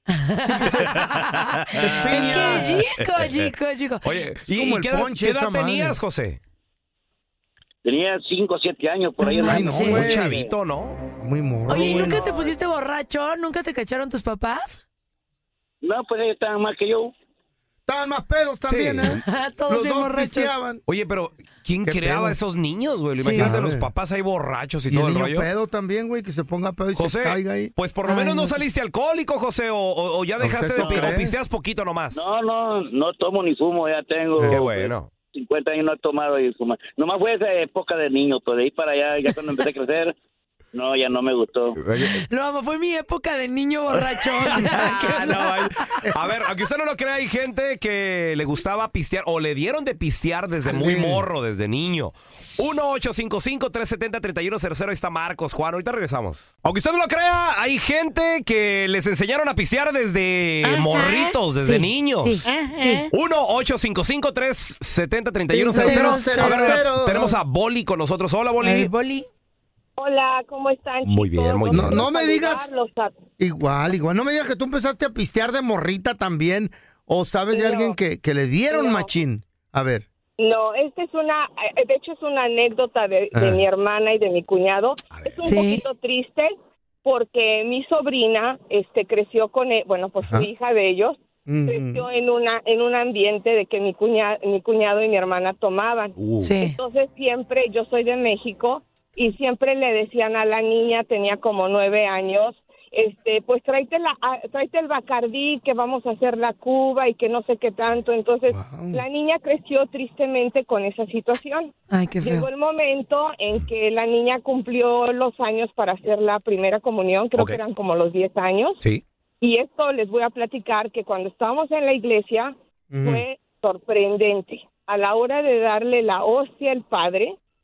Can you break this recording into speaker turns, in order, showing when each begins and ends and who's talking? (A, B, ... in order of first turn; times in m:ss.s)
0:00.1-0:04.2 A
0:00.4-0:01.0 B
0:00.7-0:06.4 C
0:01.8-0:02.8 B
0:04.5-0:06.0 B
0:07.8-0:10.5 D
0:09.2-0:10.1 A
0:09.4-0:10.4 B
0:09.8-0:11.0 C
0:11.2-0:12.3 B
0:11.7-0:14.8 A
0:15.8-0:17.1 D
0:17.9-0:20.8 B
0:18.7-0:19.2 C
0:19.2-0:20.6 A
0:20.8-0:25.5 C
0:21.8-0:22.4 B
0:23.2-0:23.6 A
0:23.3-0:23.9 B
0:24.9-0:27.7 B
0:26.9-0:32.2 C
0:28.0-0:28.6 A
0:30.4-0:31.3 B
0:30.8-0:31.2 D
0:32.1-0:40.1 D
0:34.4-0:34.6 B
0:34.4-0:35.1 C
0:40.7-0:41.8 D
0:41.8-0:42.2 C
0:42.0-0:45.7 A
0:43.9-1:02.5 C
0:50.6-0:51.2 B
1:00.6-1:03.1 A
1:03.1-1:08.9 C
1:05.5-1:07.4 B
1:05.7-1:06.8 A
1:08.6-1:09.3 A
1:10.0-1:13.2 E
1:11.0-1:12.0 C
1:11.7-1:12.7 B
1:13.4-1:20.0 B
1:17.5-1:18.0 E
1:18.7-1:19.1 E
1:20.4-1:26.5 E
1:23.3-1:23.6 B
1:25.1-1:25.6 C
1:25.4-1:25.8 A
1:27.0-1:58.8 E
1:31.5-1:32.1 B
1:36.2-1:36.5 C
1:36.4-1:36.8 A
1:48.5-1:49.0 B
1:51.9-1:52.5 A
1:59.4-2:07.4 E
2:02.9-2:03.2 B